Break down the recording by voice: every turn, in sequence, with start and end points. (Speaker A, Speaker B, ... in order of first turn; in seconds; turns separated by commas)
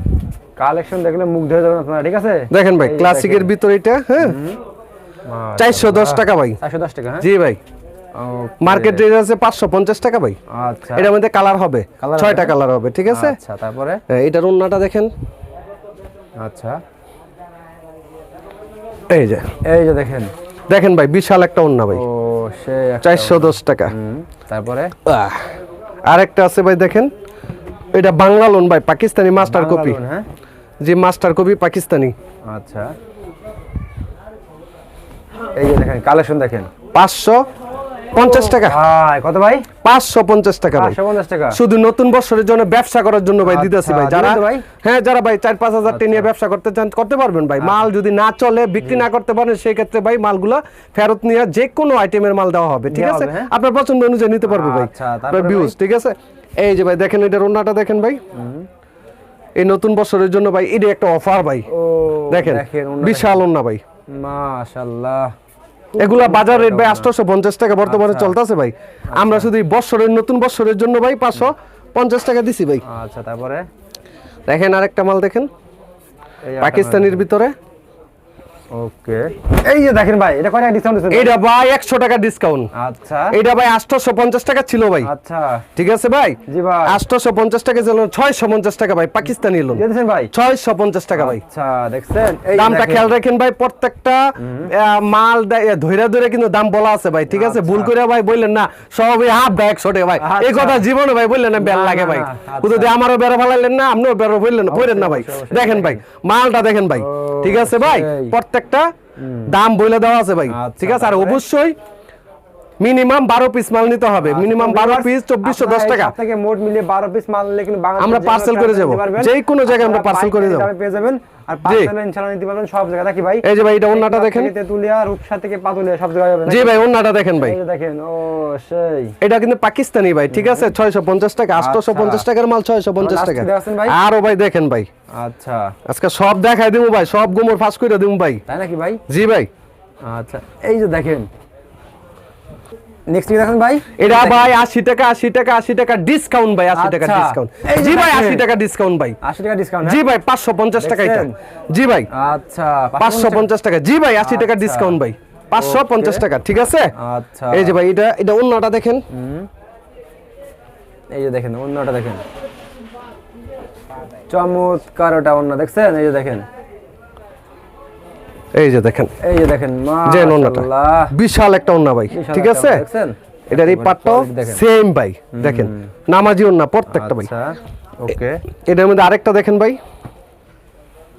Speaker A: 0.6-3.5, Speaker B: 2.5-4.4, Speaker A: 4.2-4.6, Speaker A: 5.3-7.3, Speaker B: 5.6-6.6, Speaker B: 7.2-7.6, Speaker A: 8.2-9.0, Speaker B: 8.6-10.4, Speaker A: 10.5-11.1, Speaker B: 10.9-13.4, Speaker A: 12.0-12.5, Speaker A: 13.1-14.0, Speaker B: 14.1-15.1, Speaker A: 16.4-16.8, Speaker B: 19.1-19.5, Speaker A: 19.6-20.3, Speaker B: 20.7-22.0, Speaker A: 21.9-24.9, Speaker B: 23.0-23.9, Speaker B: 25.1-25.5, Speaker B: 26.1-27.1, Speaker B: 27.9-30.0, Speaker A: 29.4-30.2, Speaker B: 30.8-32.1, Speaker A: 32.5-32.9, Speaker A: 35.6-36.7, Speaker B: 36.9-37.4, Speaker B: 38.1-38.8, Speaker A: 38.2-39.7, Speaker B: 39.8-41.0, Speaker A: 40.7-41.6, Speaker B: 41.5-58.2, Speaker A: 43.4-44.7, Speaker A: 45.9-46.3, Speaker A: 47.6-47.9, Speaker A: 52.9-53.5, Speaker A: 54.5-55.8, Speaker A: 58.3-58.7, Speaker B: 59.6-61.7, Speaker A: 61.7-63.4, Speaker B: 62.3-63.8, Speaker A: 64.1-65.3, Speaker A: 65.9-67.1, Speaker B: 66.0-72.8, Speaker A: 67.8-68.4, Speaker A: 69.1-69.5, Speaker A: 72.8-73.7, Speaker B: 74.5-75.5, Speaker A: 76.5-77.2, Speaker B: 76.6-77.5, Speaker A: 78.7-81.3, Speaker B: 81.1-82.7, Speaker A: 82.7-83.4, Speaker B: 83.3-85.1, Speaker A: 85.0-85.7, Speaker B: 85.8-91.4, Speaker A: 86.5-87.0, Speaker A: 89.8-90.3, Speaker A: 91.2-93.2, Speaker B: 92.5-108.9, Speaker A: 94.4-94.7, Speaker A: 97.3-97.9, Speaker A: 100.2-100.8, Speaker A: 101.6-102.9, Speaker A: 104.7-106.0, Speaker A: 107.0-108.4, Speaker A: 109.2-109.5, Speaker B: 109.5-111.8, Speaker A: 110.5-111.4, Speaker B: 112.8-116.2, Speaker A: 114.2-126.8, Speaker B: 118.0-120.7, Speaker B: 121.7-121.9, Speaker B: 123.4-124.5, Speaker B: 126.5-127.6, Speaker A: 127.4-129.2, Speaker B: 129.2-134.9, Speaker A: 130.3-130.7, Speaker A: 131.5-132.3, Speaker A: 133.0-134.0, Speaker A: 135.1-135.7, Speaker B: 135.9-138.4, Speaker A: 138.5-139.0, Speaker B: 139.1-139.5, Speaker A: 140.0-141.3, Speaker A: 143.1-144.5, Speaker B: 144.0-149.2, Speaker A: 146.7-148.5, Speaker A: 149.2-150.0, Speaker B: 149.8-152.1, Speaker A: 150.8-151.3, Speaker A: 152.1-153.5, Speaker B: 153.0-156.9, Speaker A: 154.2-155.0, Speaker A: 155.6-156.3, Speaker A: 156.9-157.8, Speaker B: 157.5-159.1, Speaker A: 159.1-159.5, Speaker A: 161.1-162.2, Speaker A: 164.3-166.5, Speaker B: 168.5-169.1, Speaker A: 169.2-171.2, Speaker B: 170.1-172.8, Speaker A: 172.1-174.6, Speaker B: 173.5-177.3, Speaker A: 175.3-175.9, Speaker A: 176.9-178.4, Speaker B: 178.7-179.8